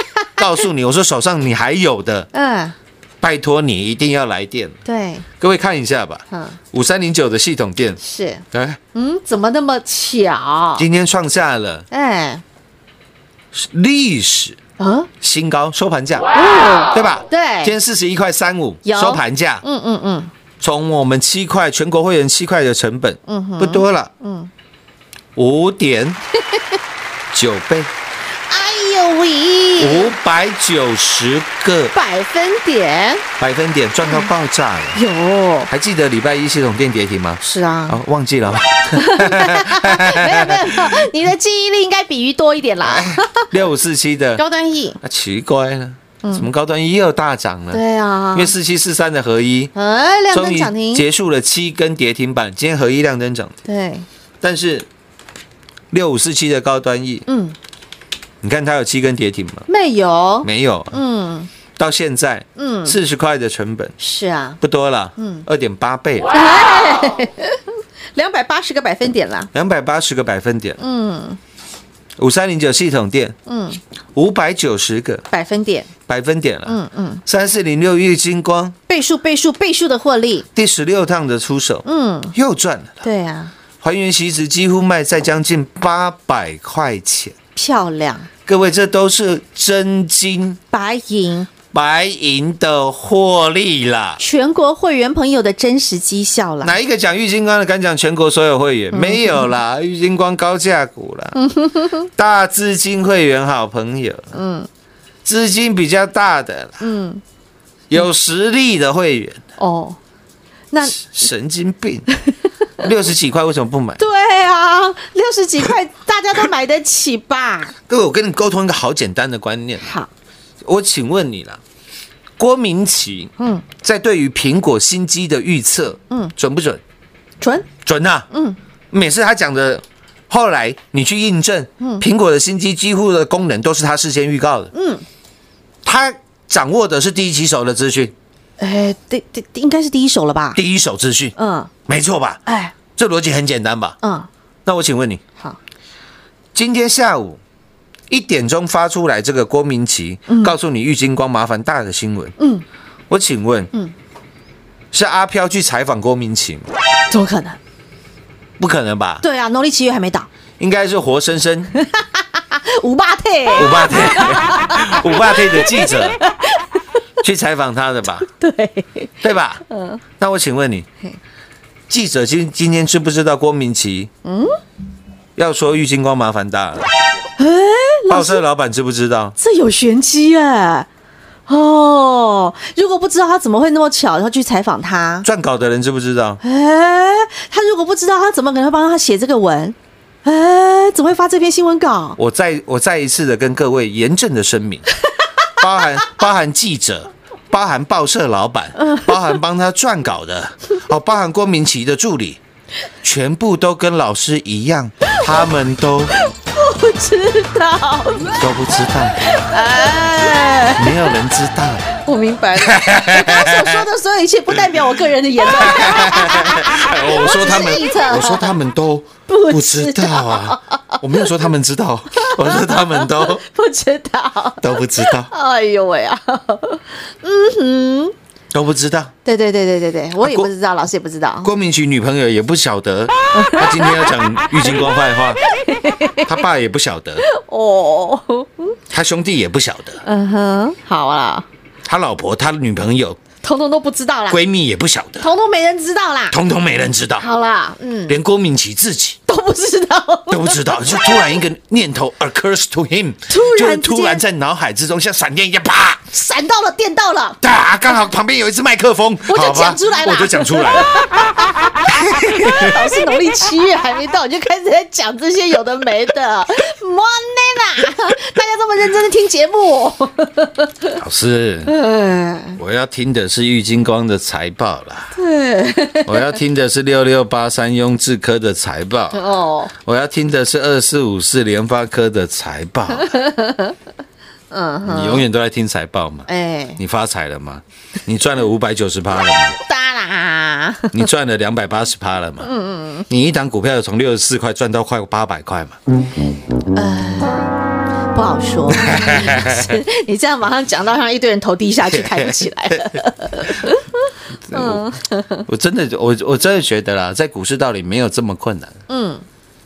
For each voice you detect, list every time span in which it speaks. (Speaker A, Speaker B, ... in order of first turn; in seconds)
Speaker A: 0.4-2.3, 3.2-4.8, 5.4-8.0, 8.5-8.8, 10.8-11.8, 13.5-14.6, 15.2-16.3, 16.9-19.6, 20.6-24.1, 25.4-26.2, 27.3-27.9, 29.8-31.9, 33.4-35.0, 35.7-41.1, 42.8-44.4, 45.0-49.7, 50.3-53.6, 54.4-54.9, 55.9-57.3, 58.4-59.7, 60.4-61.0, 61.8-64.0, 64.6-66.3, 69.5-70.8, 72.2-73.4, 74.1-75.2, 76.1-78.8, 80.5-83.0, 83.8-87.3, 88.5-90.6, 91.7-94.2, 96.6-101.4, 102.2-104.3, 105.2-106.9, 107.9-109.4, 110.8-112.1, 112.8-114.0, 117.9-119.9, 120.6-121.6, 122.4-126.8, 127.8-128.3, 128.9-134.7, 135.8-138.1, 140.5-141.3, 141.9-142.4, 142.9-144.0, 144.7-145.2, 146.5-147.4, 148.1-152.3, 153.1-153.7, 154.9-156.7, 158.6-159.2, 160.6-161.7, 163.6-166.2, 167.2-168.3, 169.2-169.6, 170.2-170.9, 171.9-174.1, 175.4-176.9, 178.1-179.4, 185.2-186.4, 192.2-194.9, 195.6-202.4, 203.0-206.2, 208.3-209.3, 210.8-211.9, 212.6-213.9, 214.5-223.4, 224.6-225.3, 228.5-229.1, 230.2-230.5, 231.4-235.4, 236.2-237.2, 238.9-240.0, 241.8-243.2, 244.3-245.3, 246.3-247.3, 248.1-249.2, 250.3-256.1, 257.4-261.0, 261.9-262.8, 271.0-271.8, 272.6-275.2, 276.1-283.2, 284.9-289.6, 290.9-292.5, 293.1-295.8, 298.7-299.8, 301.8-303.6, 304.5-304.9, 305.5-308.8
Speaker B: 2.3-2.8, 4.8-5.2, 6.3-6.6, 8.0-8.4, 8.9-10.8, 11.9-12.4, 14.8-15.1, 16.4-17.7, 18.8-20.3, 23.3-24.5, 28.5-30.1, 31.9-33.2, 34.9-35.7, 37.4-38.0, 39.0-43.5, 44.4-45.0, 47.7-48.5, 49.8-51.0, 53.7-54.1, 57.3-57.6, 59.7-61.5, 62.6-63.0, 64.0-64.6, 65.2-65.5, 66.3-67.6, 68.2-69.5, 70.8-71.4, 73.5-73.8, 75.3-75.9, 76.7-77.2, 78.9-80.5, 81.8-82.3, 83.0-83.5, 87.6-88.3, 90.7-91.5, 94.2-96.8, 98.9-99.5, 101.3-102.1, 104.3-104.7, 106.8-107.2, 109.6-110.0, 110.7-111.1, 114.0-117.7, 119.8-120.1, 123.4-123.7, 127.4-127.7, 128.3-128.6, 134.7-135.0, 138.6-140.6, 141.4-141.7, 142.5-142.7, 144.0-144.3, 150.3-150.6, 152.4-152.6, 157.1-157.6, 159.2-160.3, 161.8-166.7, 168.3-169.1, 169.7-170.0, 174.2-174.5, 177.4-178.4, 179.4-180.9, 181.5-185.3, 186.4-192.2, 198.8-199.4, 206.2-208.4, 209.2-211.0, 212.0-218.5, 219.3-221.3, 222.2-228.1, 229.2-231.5, 233.3-234.1, 235.6-236.4, 237.2-238.8, 240.0-241.5, 243.4-244.4, 245.2-246.4, 247.2-248.2, 249.3-251.2, 253.3-254.2, 256.1-257.4, 259.3-271.0, 271.7-272.6, 275.1-276.4, 279.1-279.7, 282.9-283.7, 284.5-285.2, 286.3-286.8, 289.6-291.0, 292.4-293.1, 296.7-297.6, 298.1-303.9, 304.5-305.4, 308.9-309.2